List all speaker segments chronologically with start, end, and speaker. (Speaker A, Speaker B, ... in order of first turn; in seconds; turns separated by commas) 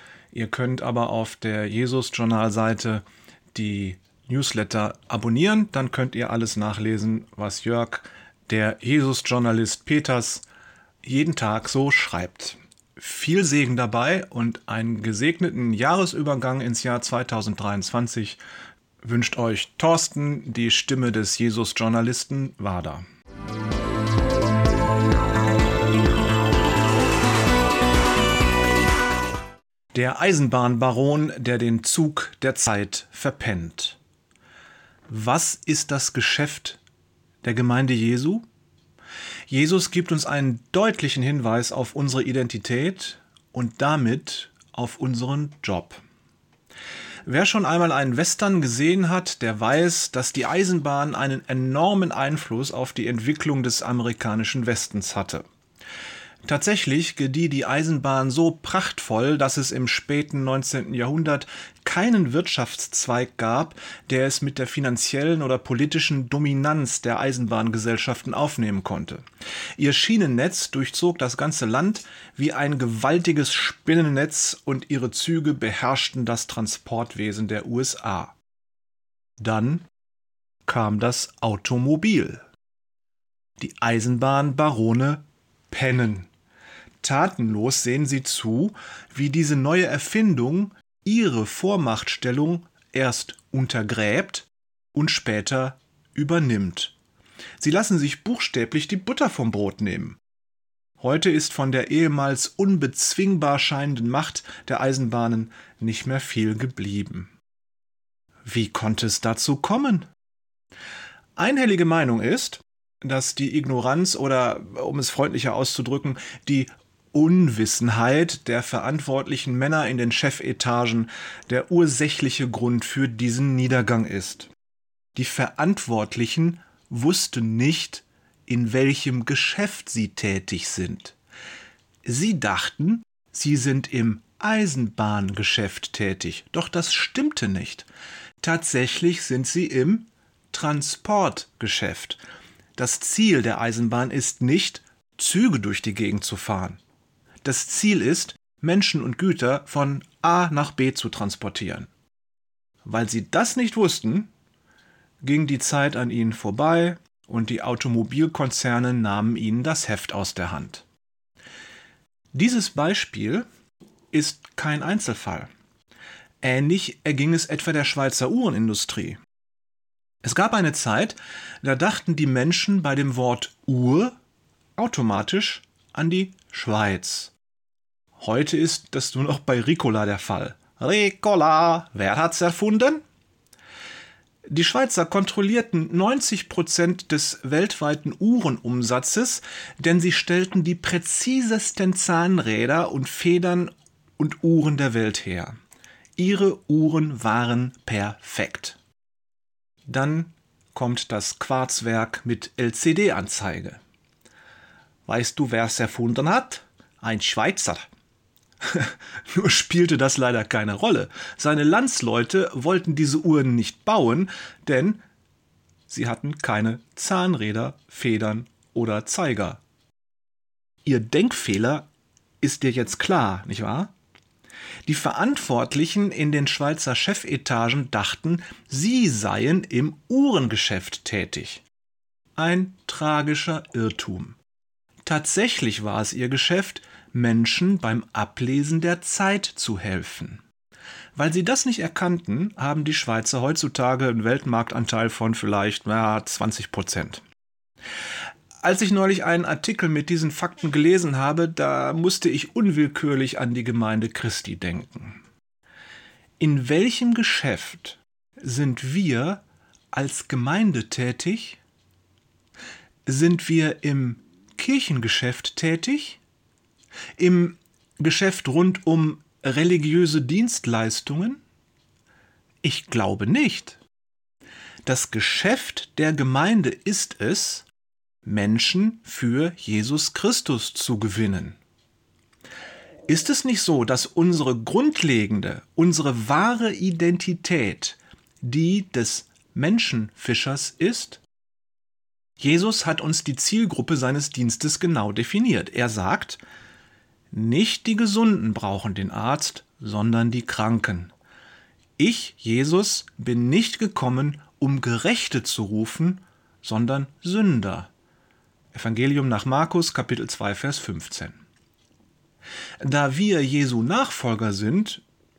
Speaker A: 0.3-10.4, Speaker A: 11.0-18.4, Speaker A: 19.0-23.0, Speaker A: 29.9-34.0, Speaker A: 35.1-36.8, Speaker A: 37.4-38.5, Speaker A: 39.5-46.0, Speaker A: 47.3-55.4, Speaker A: 56.5-69.2, Speaker A: 69.8-78.3, Speaker A: 79.4-79.9, Speaker A: 80.7-82.5, Speaker A: 83.6-86.3, Speaker A: 87.0-97.0, Speaker A: 97.6-100.2, Speaker A: 101.0-107.3, Speaker A: 108.5-110.1, Speaker A: 111.4-124.5, Speaker A: 125.2-131.2, Speaker A: 132.0-137.9, Speaker A: 138.4-142.2, Speaker A: 142.8-146.8, Speaker A: 147.4-151.9, Speaker A: 152.8-154.3, Speaker A: 155.2-160.9, Speaker A: 162.3-163.5, Speaker A: 164.1-165.5, Speaker A: 166.4-169.2, Speaker A: 170.2-174.2, Speaker A: 174.8-177.3, Speaker A: 178.2-183.0, Speaker A: 184.5-195.6, Speaker A: 196.2-198.8, Speaker A: 199.9-203.8, Speaker A: 205.1-207.9, Speaker A: 208.7-215.0, Speaker A: 215.9-219.6, Speaker A: 220.8-221.9, Speaker A: 222.4-223.9, Speaker A: 224.9-231.7, Speaker A: 232.4-234.4, Speaker A: 235.1-240.4, Speaker A: 241.2-247.2, Speaker A: 248.6-255.2, Speaker A: 256.4-261.6, Speaker A: 263.1-266.2, Speaker A: 267.2-271.4, Speaker A: 272.6-273.8, Speaker A: 274.9-277.7, Speaker A: 278.2-281.6, Speaker A: 283.1-291.2, Speaker A: 292.4-296.4, Speaker A: 297.3-301.1, Speaker A: 302.0-307.9, Speaker A: 308.7-311.4, Speaker A: 312.8-315.0